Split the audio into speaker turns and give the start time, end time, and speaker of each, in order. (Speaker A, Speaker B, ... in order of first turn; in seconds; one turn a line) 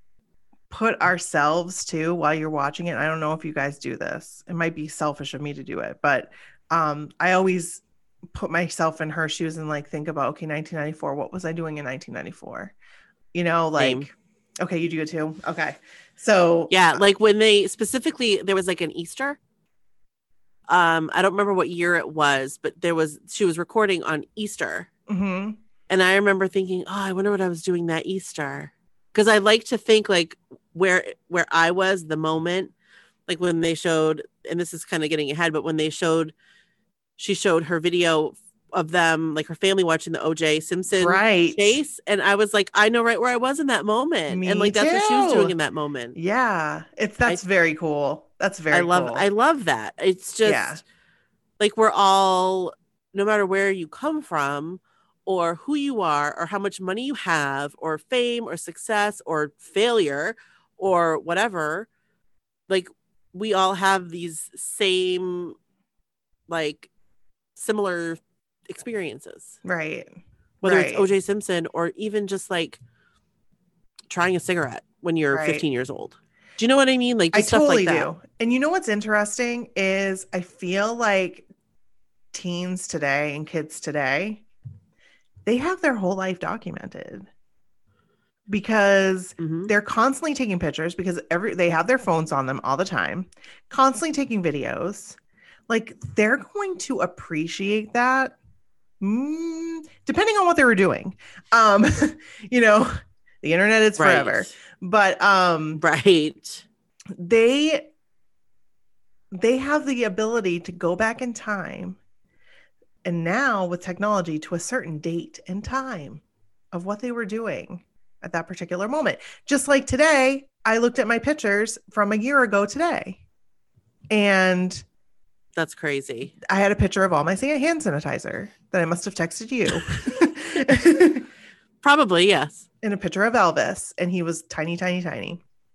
Speaker A: 0.7-12.7
Speaker A: 13.3-17.0
Speaker B: 13.8-14.1
Speaker B: 16.7-19.4
Speaker B: 20.7-24.9
Speaker A: 25.1-25.6
Speaker B: 25.9-32.7
Speaker B: 33.3-36.3
Speaker B: 37.2-46.2
Speaker A: 40.9-41.8
Speaker A: 44.3-45.5
Speaker A: 46.1-49.3
Speaker B: 48.7-50.8
Speaker A: 50.4-50.8
Speaker B: 51.6-61.9
Speaker B: 62.7-65.6
Speaker B: 66.5-66.9
Speaker B: 67.6-69.6
Speaker A: 69.6-71.1
Speaker B: 70.6-72.8
Speaker B: 74.1-78.1
Speaker A: 75.3-75.7
Speaker A: 77.3-81.5
Speaker A: 82.3-84.4
Speaker A: 85.5-87.3
Speaker A: 88.5-95.2
Speaker B: 89.4-89.7
Speaker A: 95.7-98.3
Speaker A: 99.0-105.8
Speaker B: 104.0-104.5
Speaker B: 105.8-106.7
Speaker A: 107.2-107.9
Speaker A: 109.3-112.0
Speaker A: 113.0-116.2
Speaker A: 116.7-123.2
Speaker A: 124.1-124.8
Speaker B: 125.6-126.3
Speaker A: 126.4-131.3
Speaker B: 129.9-130.3
Speaker B: 131.8-132.7
Speaker A: 132.8-135.4